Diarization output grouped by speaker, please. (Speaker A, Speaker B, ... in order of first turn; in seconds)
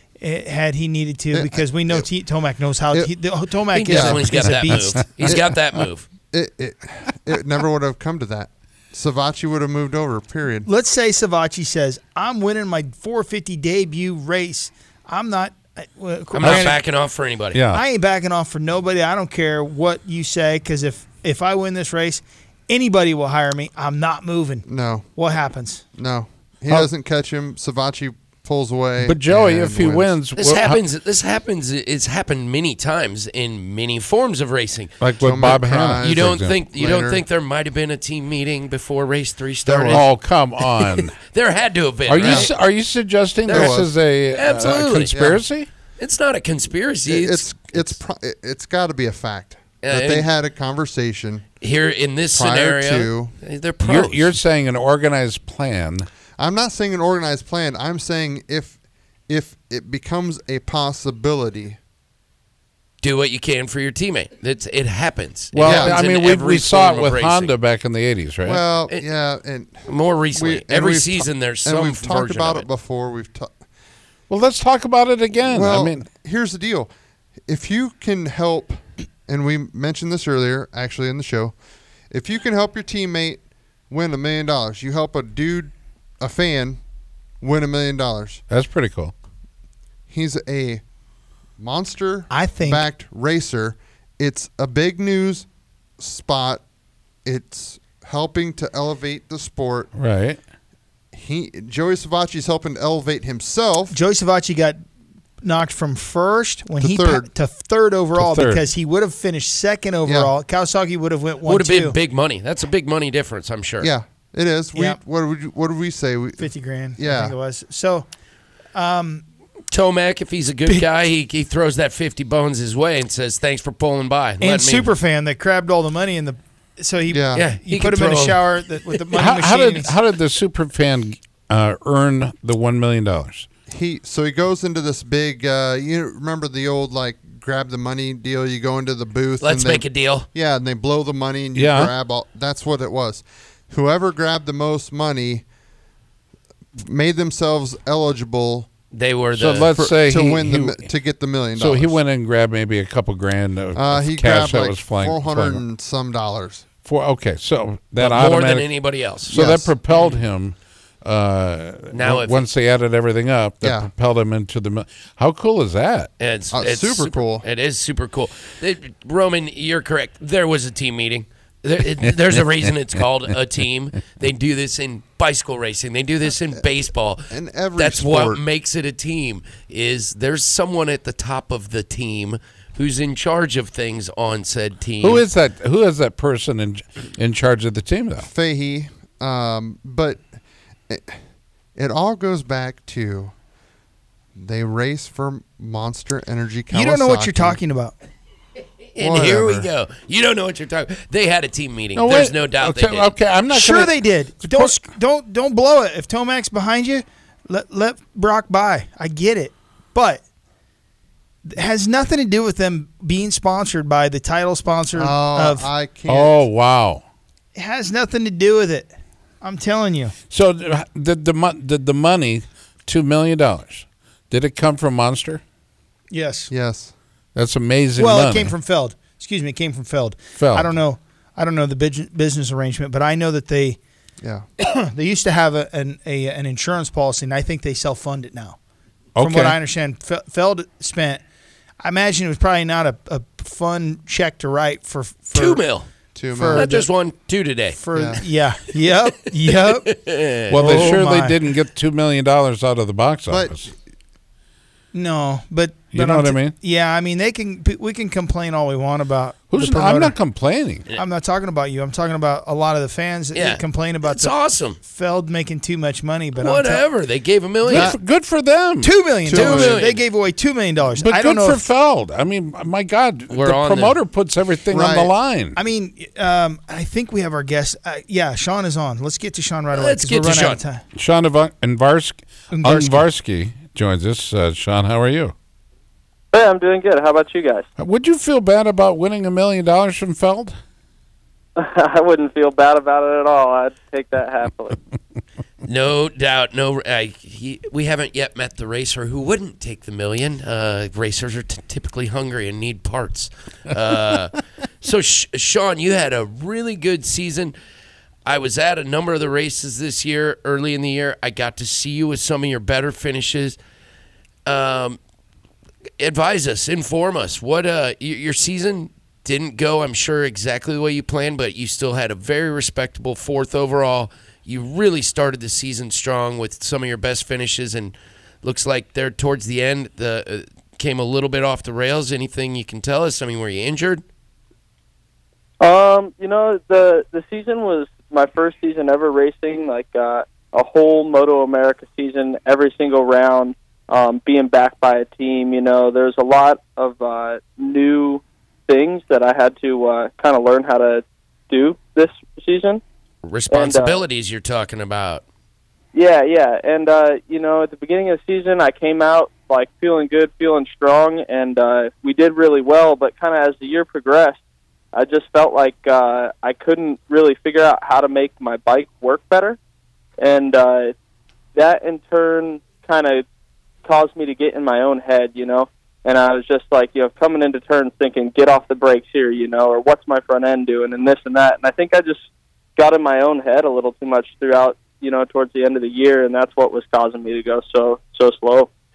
Speaker A: 0.2-5.0, 10.7-17.0, 17.7-25.8, 92.3-92.9, 103.9-104.8, 105.4-112.0, 114.7-115.0, 116.4-118.0, 118.7-119.2, 124.4-130.0, 196.7-197.9, 203.5-210.2, 211.5-215.7, 217.6-220.2, 226.1-226.5, 228.0-233.8, 234.6-238.6, 239.2-241.2, 241.8-245.7, 246.3-247.0, 247.7-251.5, 254.9-260.2, 260.9-266.9, 267.6-267.9, 268.8-271.7, 275.5-280.8, 282.5-283.1
Speaker B: 1.3-2.1, 2.9-3.3, 3.8-4.4, 5.2-5.6, 6.3-10.7, 24.6-25.1, 25.9-30.2, 35.2-37.2, 42.2-42.5, 43.5-43.9, 45.1-45.4, 47.0-51.5, 52.3-53.4, 56.4-58.8, 59.3-61.8, 65.6-66.0, 68.5-73.5, 75.4-76.9, 77.5-81.5, 82.1-86.8, 87.4-88.4, 90.1-90.8, 91.6-95.5, 96.0-96.6, 97.2-99.9, 101.1-104.0, 106.8-107.3, 110.0-110.3, 113.8-117.3, 127.1-127.5, 133.7-145.4, 146.8-148.7, 149.8-152.0, 153.8-156.6, 159.3-159.7, 163.6-163.9, 166.5-167.5, 177.3-178.4, 188.2-190.2, 190.9-191.2, 191.8-193.3, 194.4-197.6, 199.0-199.7, 214.9-216.5, 226.5-226.9, 246.2-246.7, 247.9-248.2, 253.3-253.6, 267.7-268.0, 274.7-275.1
Speaker C: 3.7-6.1, 16.3-17.6, 30.3-34.9, 36.0-40.1, 40.6-42.5, 43.5-45.2, 46.0-48.0, 49.8-50.3, 51.6-54.4, 63.0-67.5, 69.9-72.7, 111.4-113.9, 119.7-124.9, 127.3-129.1, 139.4-140.2, 148.9-149.7, 158.0-159.4, 161.9-162.5, 166.2-185.2, 198.9-203.1, 245.3-245.9, 246.5-247.8, 249.6-250.9, 263.3-264.8, 266.4-267.9, 269.3-270.1, 273.3-274.0, 279.7-280.6, 295.6-307.5, 308.2-313.6, 314.5-315.0, 316.0-334.0, 353.2-355.2
Speaker D: 17.5-17.8, 29.0-30.8, 35.0-36.6, 39.7-41.2, 42.0-45.7, 53.8-56.1, 65.5-68.6, 74.3-76.0, 88.5-89.1, 100.0-100.4, 108.1-108.7, 129.2-133.5, 141.6-141.9, 149.3-150.9, 151.6-155.6, 156.8-166.1, 185.0-188.3, 201.9-204.7, 216.1-217.0, 220.3-225.4, 227.3-228.6, 230.4-230.7, 239.2-239.6, 250.5-253.7, 255.9-256.6, 259.5-260.9, 267.7-269.7, 271.0-275.6, 280.9-285.3, 287.8-290.6
Speaker E: 286.3-287.7, 291.6-294.8, 335.6-352.8, 353.5-354.0, 355.9-364.4, 364.9-369.6, 370.2-370.9, 371.6-373.2, 373.8-382.2, 382.8-388.7